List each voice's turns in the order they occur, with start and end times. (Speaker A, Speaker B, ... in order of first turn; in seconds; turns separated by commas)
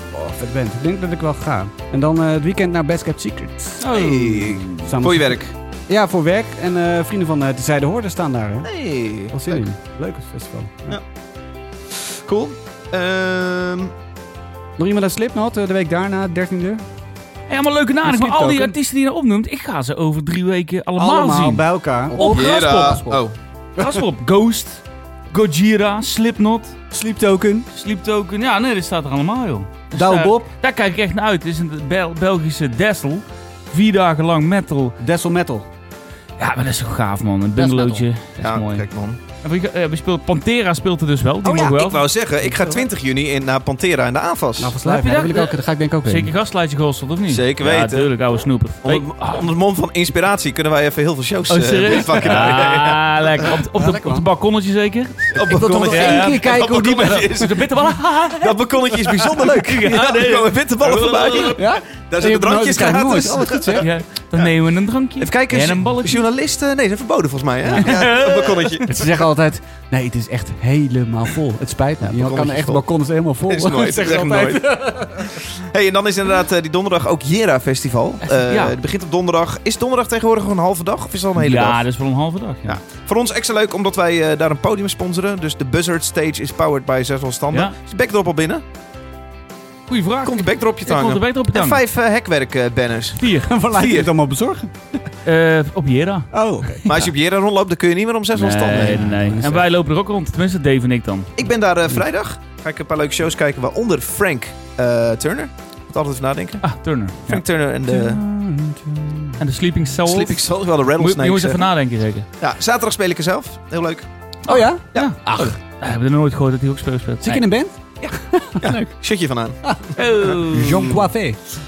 Speaker A: 0.1-3.8, Speaker B: 3.8-4.8, Speaker C: 3.9-5.5, Speaker A: 4.8-8.7, Speaker C: 8.6-9.6, Speaker A: 9.2-11.0, Speaker C: 11.9-13.9, Speaker A: 14.8-16.8, Speaker B: 17.5-23.2, Speaker A: 18.0-18.7, Speaker A: 21.0-22.8, Speaker C: 22.1-23.3, Speaker B: 23.8-26.8, Speaker A: 26.9-27.7, Speaker B: 27.7-35.0, Speaker A: 29.9-30.5, Speaker A: 35.0-35.6, Speaker B: 36.4-38.9, Speaker A: 37.5-38.1, Speaker C: 38.4-39.2, Speaker B: 39.4-42.0, Speaker C: 41.4-44.8, Speaker A: 42.5-42.8, Speaker A: 44.6-46.3, Speaker B: 44.8-49.5, Speaker C: 47.3-48.1, Speaker C: 48.8-53.6, Speaker B: 51.5-58.6, Speaker A: 53.7-54.2, Speaker C: 55.3-57.8, Speaker A: 55.5-57.3, Speaker C: 58.3-64.5, Speaker B: 59.3-61.6, Speaker A: 61.5-63.9, Speaker B: 63.8-66.2, Speaker C: 65.2-69.3, Speaker A: 67.6-67.9, Speaker B: 67.8-68.8, Speaker A: 68.8-75.4, Speaker C: 72.0-72.8, Speaker C: 73.5-81.8, Speaker B: 78.3-78.8, Speaker B: 81.4-82.8, Speaker C: 82.6-88.6, Speaker B: 89.9-91.8, Speaker C: 90.2-94.1, Speaker B: 93.2-93.5, Speaker A: 93.5-94.8, Speaker B: 95.2-96.8, Speaker A: 96.3-96.9, Speaker C: 96.8-99.1, Speaker B: 98.3-101.3, Speaker A: 98.9-99.6, Speaker C: 101.3-106.6, Speaker B: 106.6-107.4, Speaker C: 107.2-108.2, Speaker A: 107.8-109.4, Speaker B: 109.4-112.2, Speaker C: 110.0-111.7, Speaker C: 112.4-114.1, Speaker B: 114.5-117.5, Speaker A: 114.5-115.5, Speaker C: 114.9-115.6, Speaker A: 117.2-118.9, Speaker C: 118.0-120.4, Speaker B: 120.0-121.0, Speaker A: 120.5-121.4